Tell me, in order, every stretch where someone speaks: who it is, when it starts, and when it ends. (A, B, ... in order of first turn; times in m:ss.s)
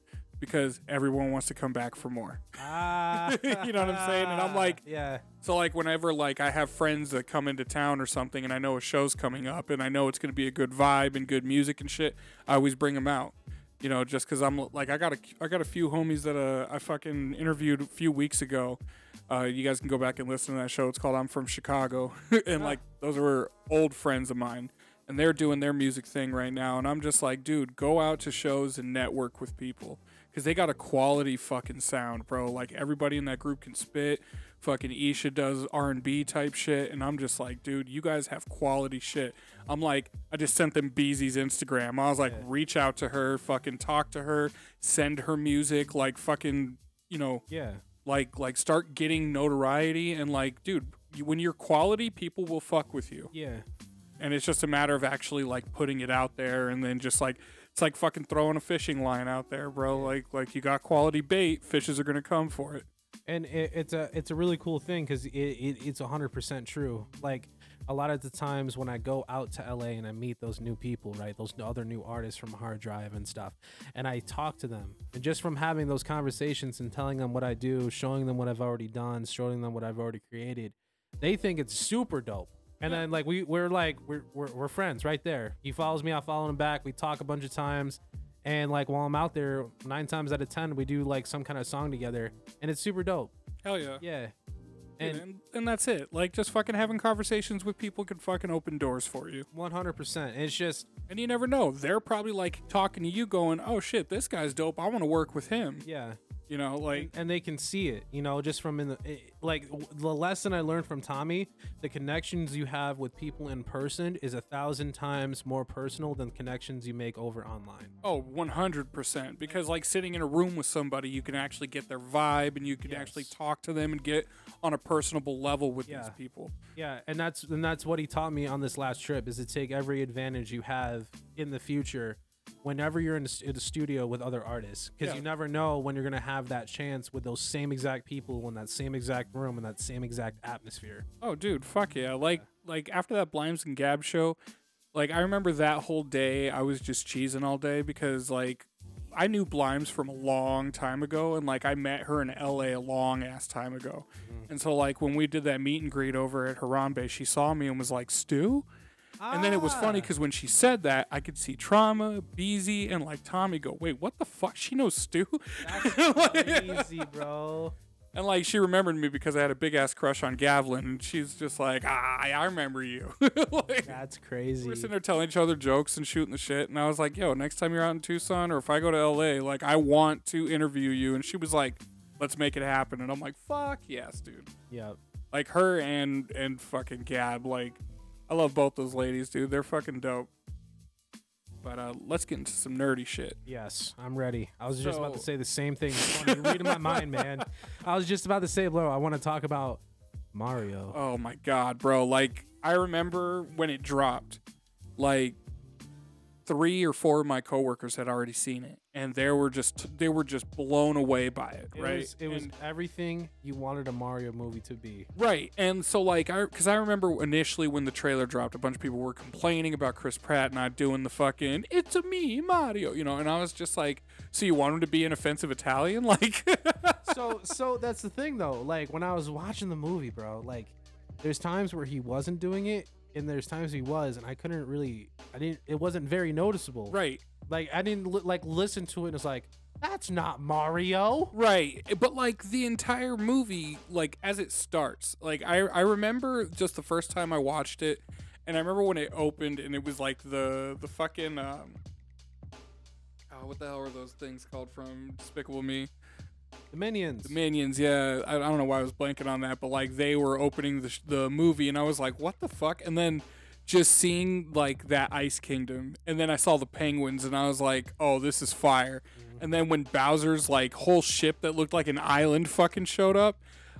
0:00.4-0:04.8 A
0:02.6-0:05.2 B
0:05.4-0:47.4 A
0:47.5-0:47.8 B
0:48.0-0:53.3 A
0:53.3-0:53.6 B
0:54.2-1:02.8 A
1:03.2-1:33.3 B
1:33.6-1:34.0 A
1:34.0-1:34.3 B
1:35.0-1:35.2 B
1:35.0-1:39.5 A
1:39.5-1:40.9 B
1:41.1-1:45.8 A
1:45.8-1:46.2 B
1:46.5-1:47.1 A
1:46.9-1:57.9 B
1:58.0-2:06.5 A
2:02.8-2:03.3 B
2:05.8-2:06.2 B
2:06.7-2:21.0 B
2:21.2-2:24.4 A
2:24.9-2:38.7 A
2:34.2-2:34.5 B
2:39.2-2:40.1 B
2:39.3-2:47.1 A
2:45.6-2:47.8 B
2:48.1-2:54.0 A
2:53.8-2:54.9 B
2:54.6-3:04.5 A
3:04.7-3:05.0 B
3:05.3-3:10.3 A
3:11.6-3:13.4 A
3:13.4-3:19.8 B
3:14.8-3:15.2 A
3:15.9-3:17.4 A
3:20.3-3:21.0 B
3:20.9-3:24.4 A
3:25.0-3:25.4 A
3:26.4-3:32.5 A
3:31.7-3:35.1 B
3:35.2-3:47.2 A
3:47.0-3:57.0 B
3:56.9-3:57.2 A
3:57.5-4:01.3 B
4:01.3-4:11.8 A
4:13.3-4:15.9 A
4:16.7-4:17.4 B
4:17.2-4:33.4 A
4:29.2-4:29.4 B